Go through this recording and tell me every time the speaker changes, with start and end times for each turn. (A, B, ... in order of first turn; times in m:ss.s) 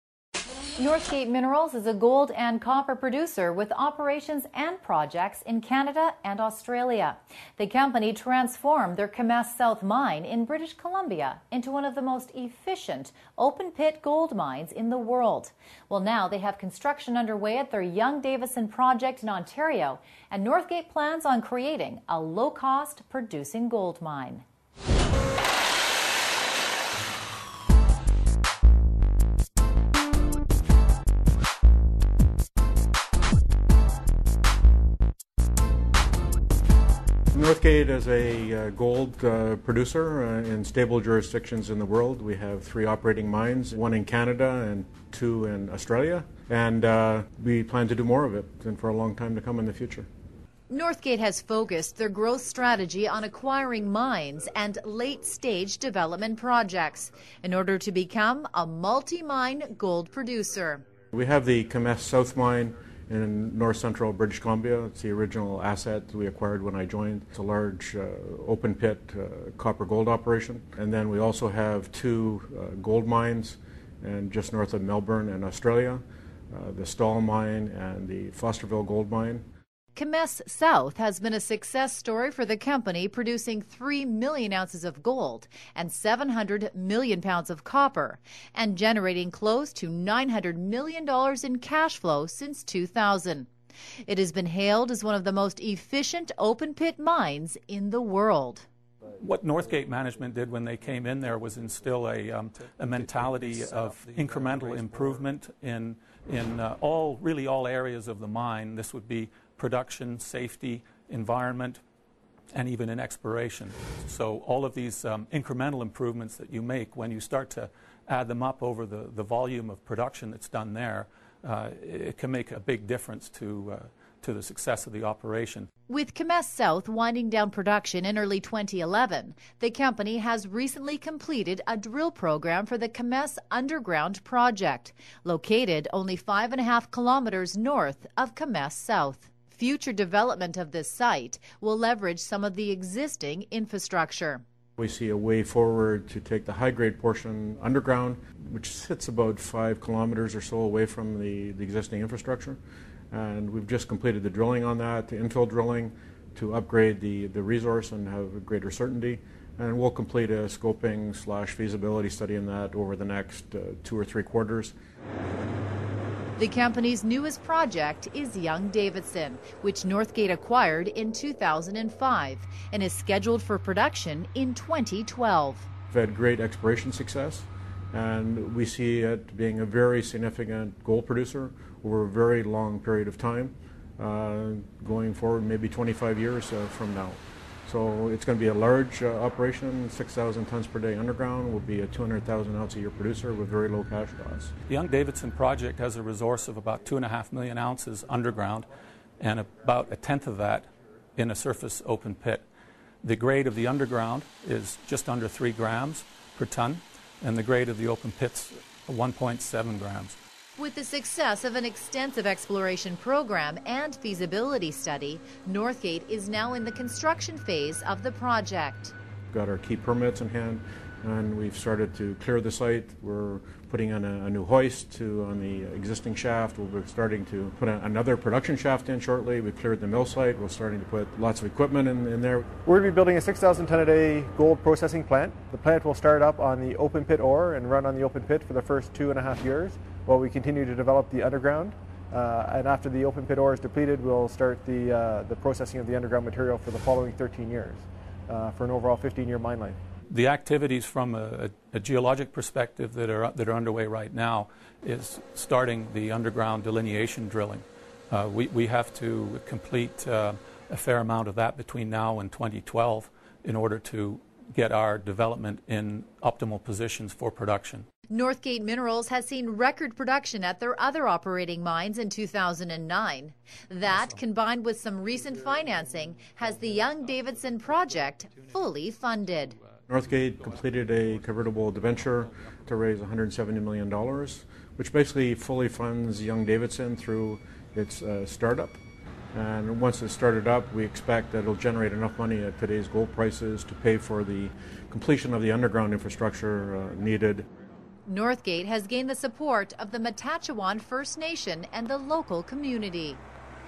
0:00.8-0:24.4 A
0:37.3-0:50.1 B
0:50.7-1:00.8 A
1:01.1-1:19.4 B
1:20.0-1:33.5 A
1:34.0-1:38.7 A
1:39.2-1:51.8 C
1:52.5-2:05.7 C
2:05.9-2:24.4 A
2:24.8-2:32.6 B
2:33.1-2:44.7 B
2:46.4-2:55.7 A
2:55.9-3:14.5 B
3:14.7-3:18.7 C
3:19.2-3:22.4 C
3:23.0-3:30.2 C
3:30.6-3:38.9 A
3:39.3-3:52.4 B
3:52.6-4:09.8 D
4:10.1-4:27.8 C
4:28.1-4:39.6 A
4:39.9-4:48.8 B
4:49.3-4:57.4 B
4:58.0-5:03.2 A